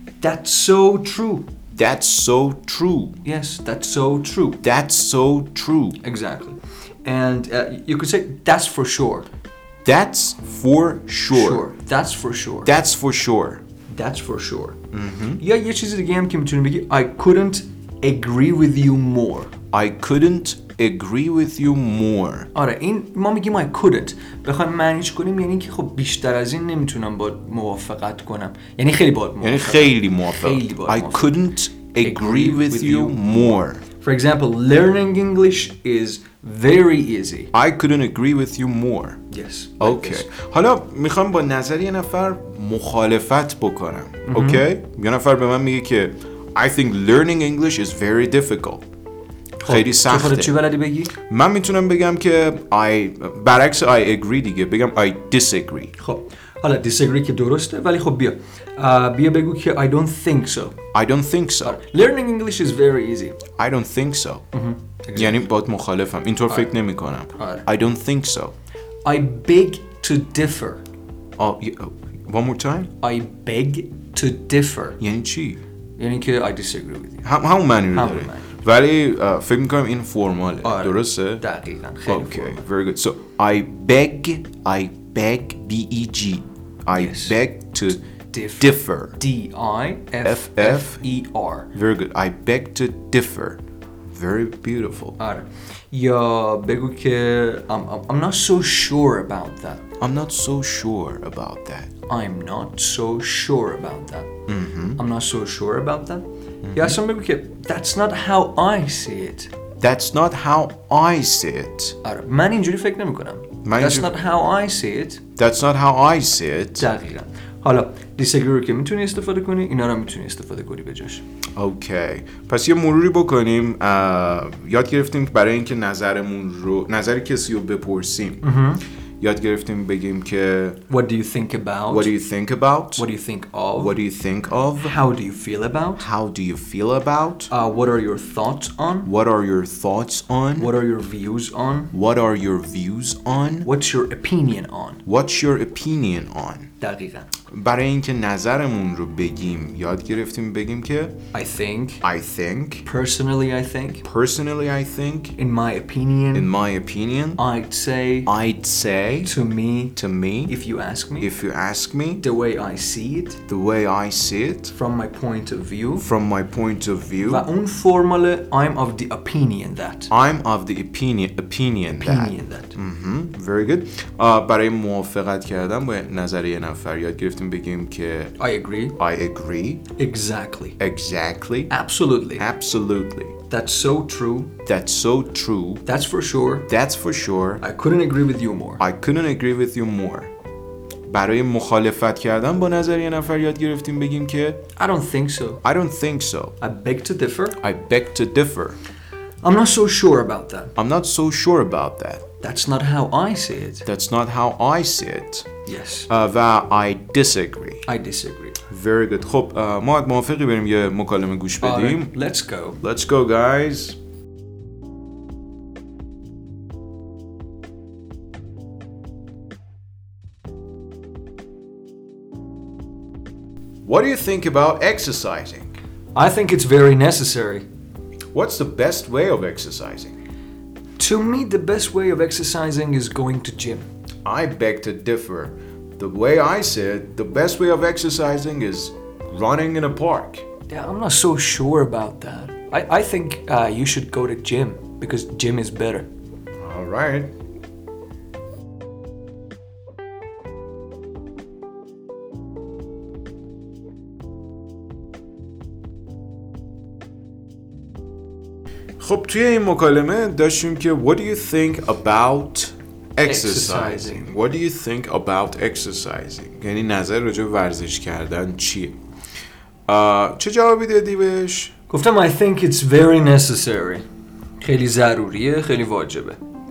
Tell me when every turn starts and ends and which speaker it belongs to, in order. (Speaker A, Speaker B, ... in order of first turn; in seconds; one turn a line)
Speaker A: 0.2-1.5
Speaker B: 1.7-3.2
Speaker A: 3.2-4.6
Speaker B: 4.6-6.0
Speaker A: 6.0-9.3
Speaker B: 9.8-11.7
Speaker A: 11.3-12.8
Speaker B: 12.7-13.6
Speaker A: 13.9-14.8
Speaker B: 14.9-15.4
Speaker A: 15.4-19.5
Speaker B: 19.7-22.5
Speaker A: 22.6-31.4
Speaker B: 29.4-33.8
Speaker A: 32.0-37.5
Speaker B: 37.5-39.2
Speaker A: 39.3-40.3
Speaker B: 39.8-48.9
Speaker A: 44.3-44.7
Speaker B: 49.6-50.6
Speaker A: 49.6-51.2
Speaker B: 51.2-55.9
Speaker A: 56.0-60.8
Speaker B: 60.9-61.8
Speaker A: 61.6-63.4
Speaker B: 63.6-64.5
Speaker A: 64.5-65.4
Speaker B: 65.2-68.5
Speaker A: 67.4-67.7
Speaker A: 69.0-70.8
Speaker B: 71.4-72.9
Speaker A: 73.0-75.0
Speaker B: 75.0-75.6
Speaker A: 76.0-77.3
Speaker B: 77.2-81.4
Speaker A: 77.9-78.5
Speaker A: 80.6-82.6
Speaker B: 82.1-88.0
Speaker A: 86.9-87.4
Speaker A: 88.3-91.7
Speaker B: 88.6-89.2
Speaker B: 90.2-91.0
Speaker B: 91.7-95.2
Speaker A: 95.2-99.8
Speaker B: 100.0-101.9
Speaker A: 102.1-104.3
Speaker B: 104.5-105.0
Speaker A: 105.0-109.5
Speaker B: 106.6-107.0
Speaker B: 109.8-112.0
Speaker A: 112.0-115.2
Speaker B: 113.7-114.1
Speaker B: 115.4-116.9
Speaker A: 116.8-121.2
Speaker B: 121.6-128.4
Speaker A: 128.4-128.8
Speaker B: 129.2-130.8
Speaker A: 130.9-132.1
Speaker B: 131.9-133.1
Speaker A: 133.0-134.0
Speaker B: 133.8-135.0
Speaker A: 134.8-136.1
Speaker B: 136.0-137.5
Speaker A: 137.5-139.1
Speaker B: 139.1-140.7
Speaker A: 140.6-141.9
Speaker B: 141.9-143.7
Speaker A: 143.6-145.0
Speaker B: 145.1-146.7
Speaker A: 146.8-147.3
Speaker B: 147.5-151.2
Speaker A: 151.3-152.0
Speaker B: 152.0-152.8
Speaker A: 152.8-154.1
Speaker B: 154.0-155.4
Speaker A: 155.4-156.5
Speaker B: 156.3-157.4
Speaker A: 157.4-158.3
Speaker B: 158.3-159.3
Speaker A: 159.2-159.9
Speaker B: 160.0-160.5
Speaker A: 160.5-161.3
Speaker B: 161.2-162.2
Speaker A: 162.2-163.4
Speaker B: 163.5-164.7
Speaker A: 164.7-166.1
Speaker B: 166.0-167.5
Speaker A: 167.2-170.1
Speaker B: 170.1-178.3
Speaker A: 172.0-172.8
Speaker A: 178.4-179.0
Speaker B: 179.0-179.8
Speaker A: 180.0-180.8
Speaker B: 180.8-181.7
Speaker A: 181.7-182.5
Speaker B: 182.4-183.4
Speaker A: 183.5-184.5
Speaker B: 184.7-185.8
Speaker A: 185.9-186.7
Speaker B: 186.7-187.6
Speaker A: 187.6-188.8
Speaker B: 188.8-190.3
Speaker B: 191.1-194.6
Speaker A: 194.8-195.6
Speaker B: 195.6-196.6
Speaker A: 196.6-197.6
Speaker B: 197.6-198.8
Speaker A: 199.4-200.7
Speaker B: 200.8-202.2
Speaker A: 202.4-203.8
Speaker B: 203.8-205.5
Speaker A: 205.7-206.1
Speaker B: 206.1-207.9
Speaker A: 207.9-208.6
Speaker B: 208.6-212.1
Speaker A: 211.6-212.8
Speaker B: 212.8-214.0
Speaker B: 223.8-225.8
Speaker A: 226.2-227.7
Speaker B: 228.3-230.2
Speaker A: 231.0-233.9
Speaker B: 234.2-240.5
Speaker A: 240.7-246.1
Speaker B: 246.6-247.3
Speaker B: 259.0-269.0
Speaker A: 263.2-264.3
Speaker B: 269.9-271.7
Speaker A: 271.9-274.1
Speaker A: 274.6-276.4